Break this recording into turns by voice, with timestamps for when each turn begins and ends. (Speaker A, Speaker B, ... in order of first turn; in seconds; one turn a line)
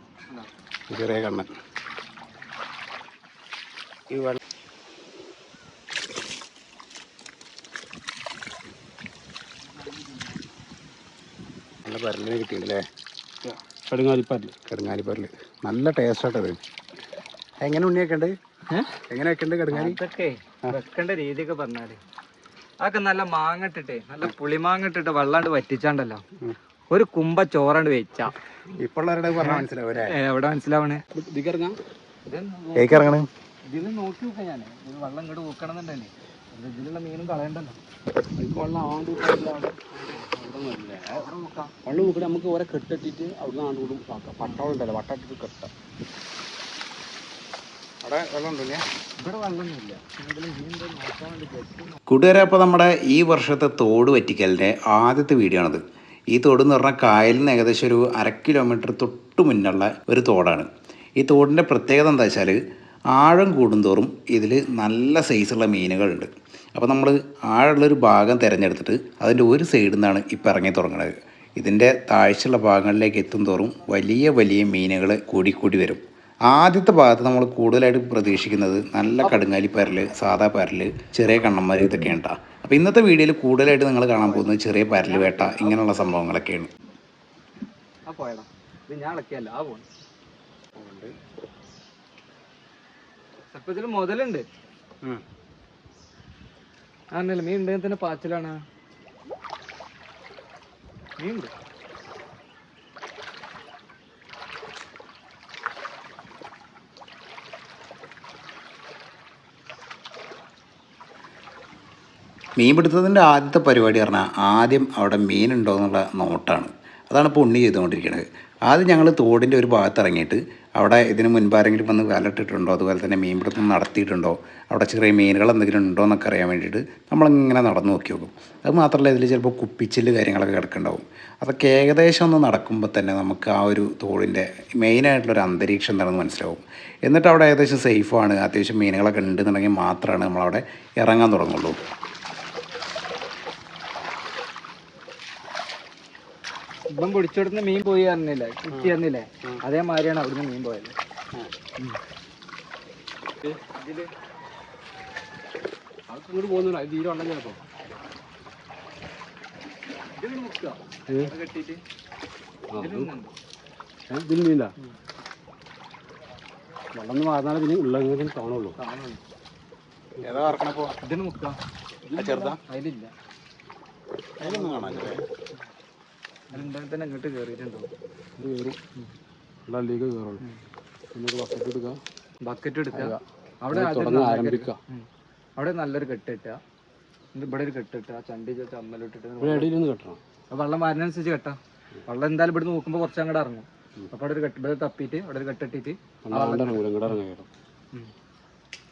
Speaker A: 0.9-1.5
Speaker A: 4.1-4.4
Speaker A: 11.8-12.8
Speaker B: 13.4-14.5
Speaker A: 14.7-16.6
Speaker A: 17.6-18.3
Speaker A: 19.1-20.0
Speaker C: 19.7-22.0
Speaker C: 22.8-26.2
Speaker C: 26.9-28.3
Speaker A: 28.8-30.1
Speaker C: 29.4-31.0
Speaker B: 31.1-31.8
Speaker C: 32.3-33.1
Speaker A: 32.8-33.3
Speaker C: 33.7-37.8
Speaker B: 38.4-41.3
Speaker C: 41.1-41.7
Speaker B: 41.9-45.7
Speaker A: 48.0-48.8
Speaker C: 49.2-52.0
Speaker A: 52.1-55.8
Speaker A: 56.3-60.7
Speaker A: 61.2-62.6
Speaker A: 63.1-86.7
Speaker C: 84.2-86.1
Speaker C: 88.1-89.8
Speaker A: 90.8-91.1
Speaker C: 93.5-94.4
Speaker C: 97.1-98.6
Speaker C: 101.2-101.5
Speaker A: 112.6-141.8
Speaker C: 146.9-150.9
Speaker A: 148.7-149.6
Speaker C: 153.7-154.1
Speaker B: 156.1-157.6
Speaker C: 160.2-161.8
Speaker B: 162.7-163.1
Speaker C: 162.8-163.3
Speaker B: 164.1-164.7
Speaker B: 166.9-168.8
Speaker C: 168.8-169.2
Speaker B: 170.2-170.6
Speaker A: 170.2-170.9
Speaker C: 171.0-171.6
Speaker B: 172.1-172.4
Speaker A: 172.2-172.6
Speaker C: 172.2-173.1
Speaker A: 174.4-175.2
Speaker B: 174.4-175.2
Speaker C: 174.7-175.2
Speaker C: 176.5-177.9
Speaker B: 178.4-178.8
Speaker B: 179.7-180.4
Speaker B: 181.1-182.0
Speaker C: 182.4-186.6
Speaker B: 182.9-184.8
Speaker C: 187.3-189.7
Speaker B: 189.4-190.2
Speaker C: 190.5-197.1
Speaker B: 196.2-197.5